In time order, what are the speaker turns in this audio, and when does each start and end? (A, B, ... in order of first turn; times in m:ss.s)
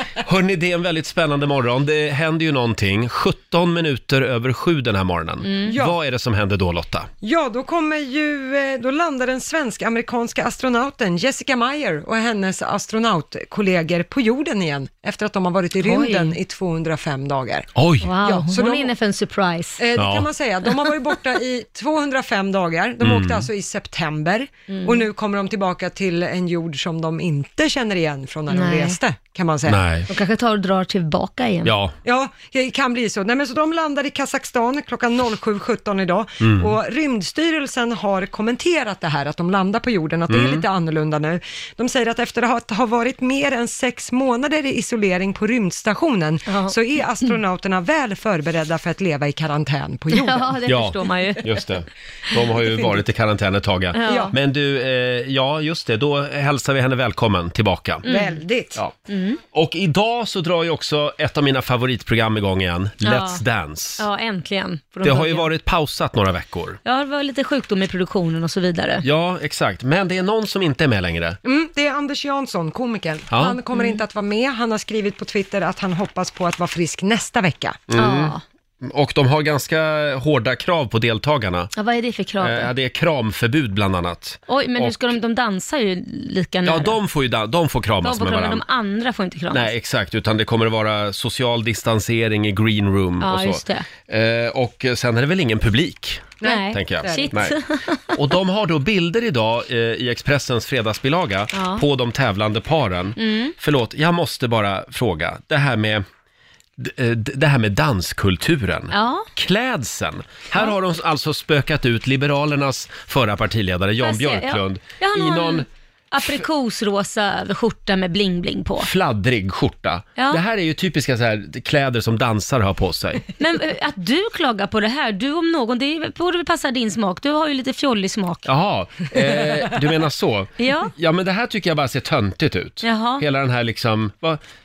0:00.2-0:07.1 A
0:05.5-0:05.8 B
0:05.7-0:06.0 C
0:07.2-0:18.9 C
0:15.8-0:16.4 B
0:17.8-0:18.1 A
0:18.0-0:19.8 B
0:19.8-0:29.8 C
0:20.0-0:20.3 A
0:23.0-0:23.5 A
0:24.7-0:25.0 B
0:28.5-0:29.0 B
0:29.7-0:30.1 A
0:30.1-0:31.7 B
0:31.6-0:31.9 A
0:32.0-0:50.6 C
0:36.4-0:36.8 A
0:40.3-0:40.6 A
0:46.5-0:46.8 B
0:50.1-0:51.6 B
0:50.6-0:58.1 A
0:53.9-0:54.3 B
0:54.0-0:54.3 C
0:58.0-0:58.4 B
0:58.1-0:58.8 C
0:59.1-0:59.4 B
0:59.5-1:04.1 A
1:03.0-1:03.4 B
1:04.0-1:05.5 B
1:05.0-1:06.8 A
1:06.8-1:09.1 B
1:09.0-1:11.4 A
1:11.4-1:17.8 C
1:13.3-1:13.6 A
1:13.7-1:14.0 B
1:17.9-1:21.7 A
1:17.9-1:18.4 B
1:21.8-1:22.7 B
1:22.4-1:25.0 A
1:24.5-1:27.0 B
1:26.6-1:28.6 A
1:28.0-1:29.7 B
1:29.5-1:37.6 A
1:33.2-1:33.9 B
1:36.4-1:37.3 C
1:36.4-1:38.1 B
1:38.1-1:46.0 A
1:41.5-1:41.8 B
1:43.2-1:43.6 B
1:46.8-1:55.7 A
1:48.9-1:49.3 B
1:54.0-1:58.9 B
1:58.8-2:03.3 A
2:00.2-2:00.4 B
2:03.4-2:08.5 B
2:08.5-2:14.4 A
2:10.6-2:10.9 B
2:12.8-2:13.2 B